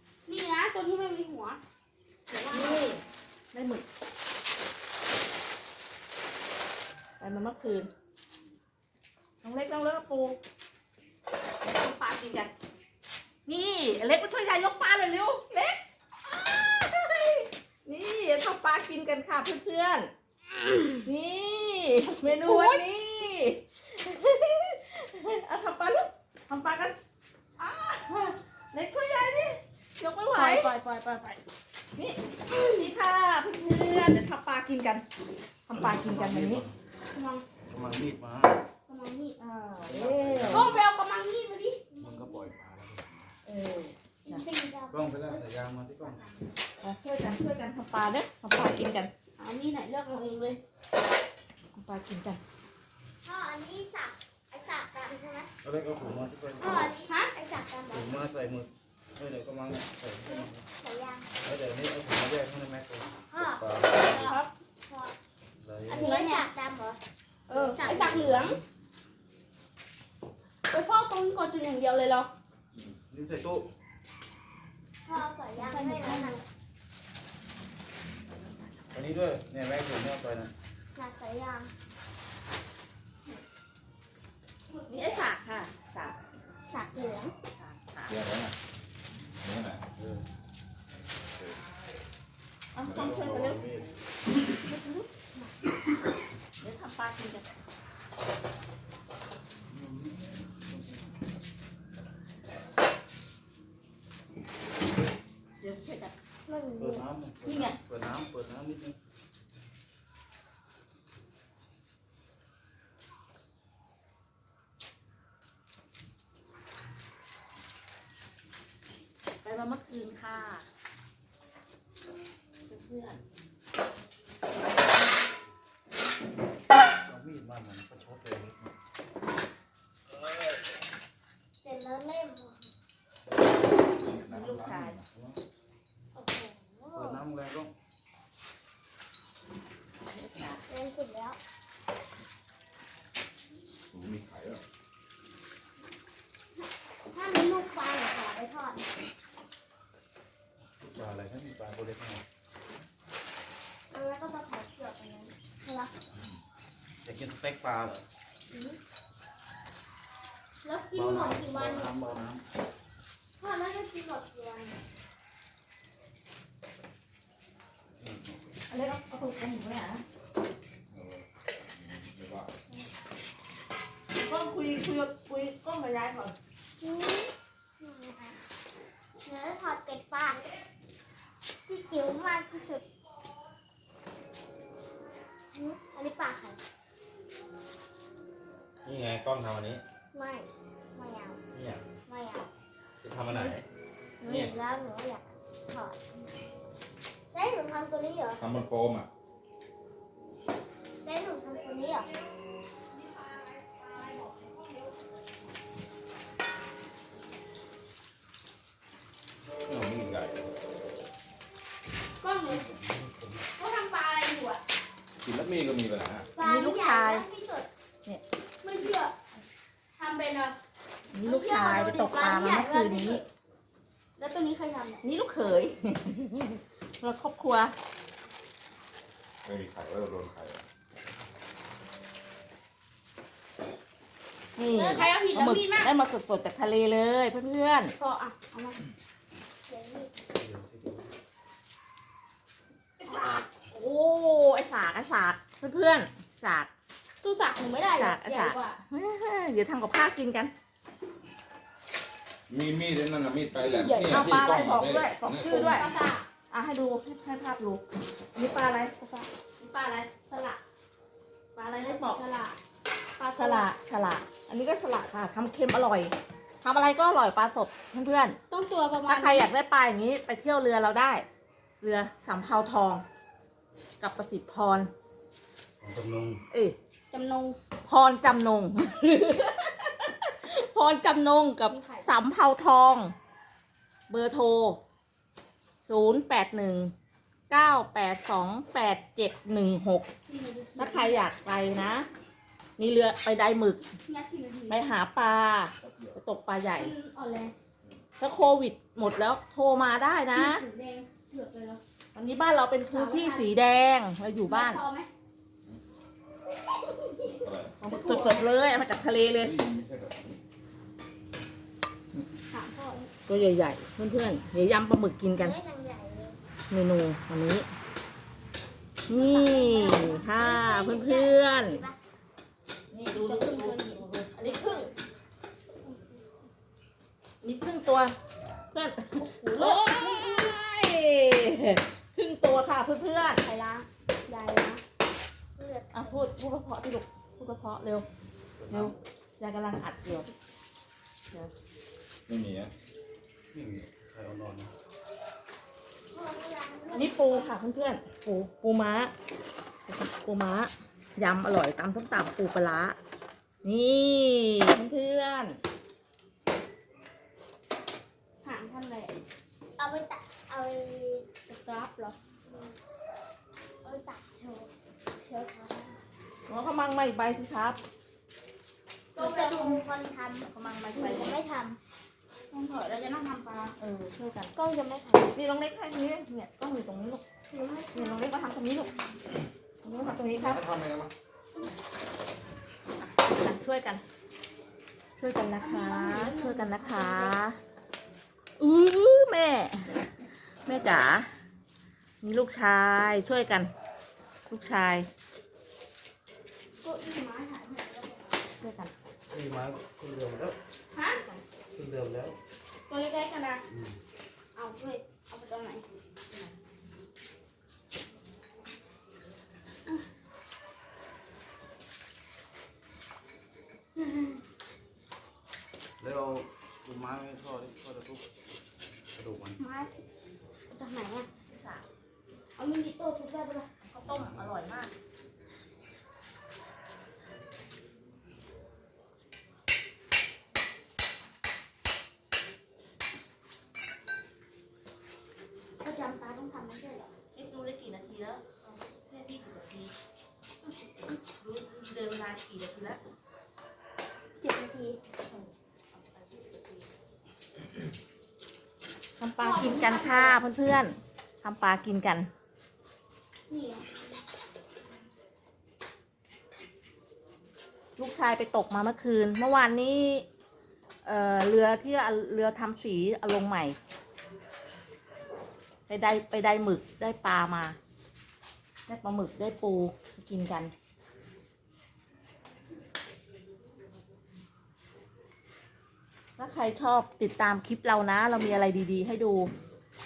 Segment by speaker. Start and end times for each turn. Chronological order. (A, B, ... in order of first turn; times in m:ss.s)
0:00.2-0:01.6 A
0:02.3-0:02.9 A
0:02.5-0:03.0 B
0:03.5-0:03.8 B
0:07.2-0:07.9 B
0:09.4-0:10.4 B
0:11.7-0:12.5 B
0:13.4-0:20.1 B
0:20.6-0:21.0 A
0:21.0-0:27.0 B
0:22.2-0:22.8 A
0:27.6-0:30.7 B
0:30.3-0:31.4 A
0:31.9-0:35.0 B
0:32.5-0:32.9 A
0:35.7-0:36.6 B
0:35.7-0:36.8 C
0:37.1-0:37.4 A
0:37.7-0:38.6 C
0:38.9-0:39.4 A
0:39.4-0:40.7 B
0:39.8-0:40.8 C
0:40.4-0:41.8 A
0:42.0-0:43.3 C
0:43.4-0:44.4 B
0:44.2-0:46.5 D
0:44.9-0:46.2 C
0:46.8-0:49.1 B
0:49.4-0:50.6 A
0:51.7-0:52.4 B
0:53.2-0:55.5 D
0:55.6-0:56.9 C
0:56.6-0:58.2 D
0:57.0-0:57.3 A
0:57.9-1:00.7 C
1:00.2-1:01.3 D
1:01.4-1:04.4 C
1:03.3-1:04.2 D
1:04.0-1:04.5 A
1:04.8-1:05.1 D
1:05.6-1:06.1 C
1:05.9-1:08.2 D
1:06.0-1:06.5 A
1:07.5-1:08.6 A
1:07.9-1:08.6 C
1:10.7-1:12.3 A
1:12.9-1:13.7 C
1:15.0-1:16.4 D
1:15.6-1:16.4 A
1:18.9-1:20.5 C
1:20.9-1:21.7 D
1:24.7-1:25.2 A
1:24.9-1:26.2 B
1:26.7-1:27.3 A
1:27.5-1:28.2 B
1:28.1-1:28.5 E
1:29.4-1:29.8 E
1:30.0-1:30.2 C
1:32.7-1:33.6 B
1:32.9-1:34.0 C
1:36.6-1:37.4 B
1:39.7-1:41.1 C
1:45.6-1:46.1 B
1:46.5-1:47.0 D
1:46.8-1:49.0 C
1:47.4-1:47.8 B
1:59.4-2:00.6 B
2:02.7-2:03.2 B
2:07.0-2:08.7 C
2:11.6-2:12.7 D
2:14.0-2:15.0 E
2:14.2-2:15.0 B
2:14.4-2:15.4 C
2:16.1-2:17.2 D
2:16.9-2:17.7 C
2:20.0-2:20.6 B
2:20.7-2:21.4 D
2:23.9-2:24.6 E
2:27.1-2:28.9 D
2:30.8-2:32.2 C
2:33.9-2:35.9 D
2:37.0-2:38.0 C
2:38.5-2:38.8 D
2:40.6-2:42.0 D
2:40.9-2:42.4 C
2:43.4-2:44.8 D
2:48.0-2:48.4 C
2:48.7-2:50.0 B
2:52.0-2:52.5 E
2:54.1-2:56.3 B
2:56.8-2:58.4 D
2:59.2-3:00.4 D
3:01.7-3:02.8 D
3:05.5-3:06.6 D
3:08.8-3:09.8 E
3:10.1-3:11.4 D
3:11.5-3:11.8 E
3:12.0-3:12.5 D
3:13.0-3:13.6 E
3:14.2-3:16.0 D
3:14.2-3:14.6 E
3:17.3-3:18.4 D
3:18.4-3:19.1 E
3:21.0-3:22.1 D
3:29.7-3:30.5 E
3:32.2-3:32.7 A
3:32.5-3:33.5 C
3:33.6-3:34.6 A
3:35.2-3:36.3 E
3:36.3-3:37.7 D
3:36.4-3:37.2 B
3:38.6-3:39.2 A
3:40.0-3:40.6 A
3:41.1-3:43.2 B
3:41.2-3:43.2 A
3:44.2-3:45.0 A
3:45.0-3:47.7 B
3:49.4-3:50.6 E
3:54.6-3:57.9 B
3:54.7-3:55.9 A
3:58.0-3:58.8 A
3:59.7-4:00.1 D
4:00.4-4:01.1 C
4:03.0-4:06.7 B
4:03.1-4:03.4 A
4:07.2-4:08.8 A
4:07.9-4:10.5 B
4:12.5-4:15.9 E
4:13.6-4:14.2 A
4:14.1-4:15.9 B
4:15.6-4:16.2 A
4:16.5-4:17.8 B
4:18.3-4:18.9 B
4:19.0-4:19.3 A
4:19.6-4:20.1 B
4:20.3-4:20.6 A
4:21.5-4:22.2 B
4:21.7-4:22.6 A
4:23.2-4:23.7 A
4:23.3-4:28.4 B
4:28.5-4:29.5 A
4:29.1-4:31.2 B
4:31.8-4:33.0 B
4:34.0-4:34.9 B
4:35.8-4:36.4 C
4:36.5-4:36.8 B
4:37.1-4:37.6 A
4:37.8-4:43.1 B
4:41.7-4:42.1 A
4:44.1-4:44.8 B
4:45.8-4:46.9 B
4:47.5-4:50.1 B
4:50.2-4:51.2 A
4:50.8-4:52.1 B
4:52.8-4:53.8 B
4:54.0-4:54.8 A
4:54.7-4:56.9 B
4:55.8-4:56.2 E
4:56.7-4:57.5 A
4:58.2-5:00.6 B
5:00.3-5:01.8 A
5:02.1-5:04.8 B
5:02.9-5:03.5 A
5:04.4-5:05.1 A
5:07.3-5:07.7 E
5:07.8-5:09.5 B
5:07.8-5:08.5 A
5:09.4-5:10.4 E
5:12.5-5:13.1 A
5:13.3-5:15.6 B
5:15.3-5:16.4 D
5:16.7-5:17.7 B
5:19.1-5:21.8 B
5:19.1-5:22.0 D
5:22.9-5:24.9 B
5:23.1-5:24.0 A
5:25.8-5:26.2 A
5:27.4-5:28.1 B
5:28.7-5:33.4 B
5:29.2-5:30.6 A
5:33.4-5:34.8 A
5:35.6-5:36.3 D
5:35.9-5:38.0 B
5:38.6-5:38.9 C
5:38.7-5:40.3 B
5:42.3-5:42.7 E
5:43.5-5:44.7 C
5:46.1-5:47.5 D
5:46.9-5:49.1 B
5:49.9-5:53.0 B
5:53.6-5:55.6 B
5:58.4-5:59.1 A
5:59.8-6:01.2 D
6:01.4-6:02.2 A
6:02.4-6:02.8 D
6:03.8-6:06.0 D
6:06.5-6:07.8 B
6:09.1-6:11.8 D
6:09.2-6:09.8 A
6:10.4-6:11.4 B
6:12.5-6:13.8 A
6:13.8-6:14.5 B
6:14.6-6:15.3 D
6:15.3-6:17.2 B
6:17.5-6:18.2 D
6:17.9-6:18.9 B
6:19.8-6:20.7 B
6:20.0-6:21.1 E
6:23.1-6:24.0 B
6:25.2-6:27.6 B
6:25.6-6:27.4 A
6:28.6-6:30.0 B
6:30.6-6:31.3 B
6:32.2-6:33.7 B
6:34.5-6:35.1 B
6:36.8-6:38.4 A
6:38.6-6:38.9 B
6:39.3-6:40.6 C
6:40.9-6:41.2 A
6:41.1-6:41.4 B
6:41.7-6:42.4 C
6:42.9-6:43.6 A
6:43.7-6:44.0 C
6:44.6-6:45.8 A
6:54.0-6:54.4 A
6:56.0-6:58.3 C
6:59.1-6:59.6 C
6:59.6-6:59.9 A
7:00.7-7:01.3 A
7:01.4-7:01.8 B
7:02.6-7:03.7 A
7:03.8-7:04.9 B
7:04.1-7:04.5 C
7:15.8-7:17.1 A
7:17.3-7:19.9 B
7:20.6-7:21.2 A
7:21.4-7:23.0 B
7:24.4-7:25.0 A
7:25.2-7:26.8 B
7:29.2-7:32.3 B
7:29.4-7:30.4 A
7:33.5-7:33.8 A
7:38.0-7:40.2 B
7:41.0-7:43.8 B
7:45.9-7:47.8 B
7:48.9-7:50.7 B
7:56.4-7:59.5 B